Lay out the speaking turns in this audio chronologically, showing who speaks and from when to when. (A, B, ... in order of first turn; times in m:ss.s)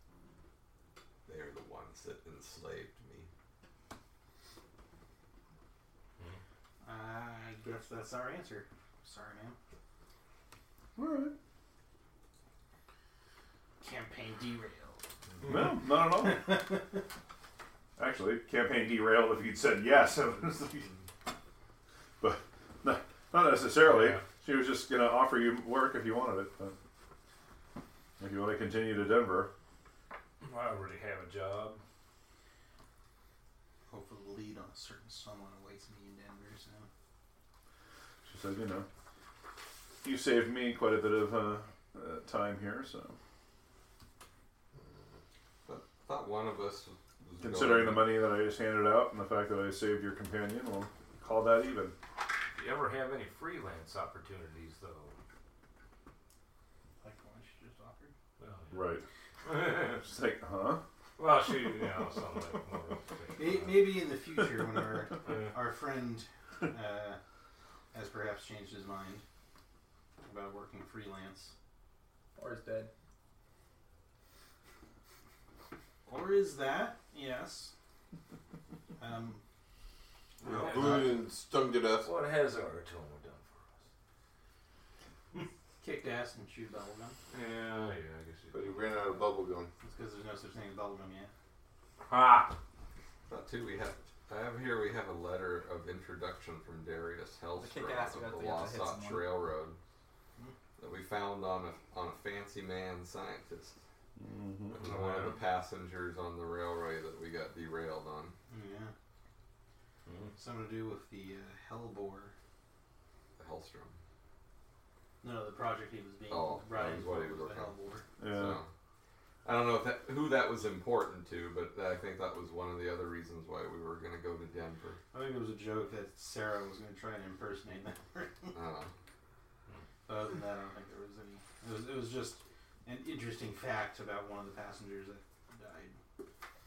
0:01.3-0:03.3 A
0:06.8-0:09.6 B
0:11.0-0:11.3 C
0:13.8-0:15.0 B
0:15.4-0:16.6 C
0:16.2-0:17.0 B
0:18.0-0:20.9 C
0:22.2-0:26.8 C
0:23.8-0:24.3 D
0:28.2-0:29.5 C
0:30.4-0:31.8 D
0:33.9-0:36.9 B
0:38.2-0:38.9 C
0:40.0-0:43.2 C
0:45.6-0:48.2 A
0:47.4-0:51.9 C
0:52.6-0:55.1 D
0:57.0-0:58.1 B
0:58.4-0:58.9 D
0:58.7-0:59.0 C
0:59.4-1:00.0 D
0:59.8-1:00.8 C
1:01.2-1:03.9 D
1:03.4-1:07.2 B
1:05.2-1:05.5 D
1:07.9-1:09.2 B
1:10.2-1:11.5 B
1:12.4-1:12.9 E
1:16.1-1:17.7 B
1:19.0-1:19.4 B
1:20.4-1:21.2 D
1:20.4-1:22.1 F
1:20.5-1:21.1 B
1:21.9-1:23.8 D
1:25.8-1:27.2 B
1:27.3-1:29.1 D
1:28.5-1:29.7 F
1:29.8-1:31.3 B
1:32.1-1:32.6 D
1:33.3-1:39.8 A
1:37.6-1:39.4 E
1:40.8-1:43.8 A
1:44.2-1:44.8 C
1:44.7-1:45.4 D
1:44.8-1:48.4 A
1:48.5-1:48.9 B
1:50.1-1:50.4 D
1:50.4-1:52.3 B
1:53.4-1:54.0 A
1:55.2-1:58.0 B
1:56.3-1:58.7 A
1:58.2-1:58.6 C
1:59.4-2:05.0 A
2:05.1-2:08.6 B
2:08.5-2:08.9 A
2:10.1-2:16.0 B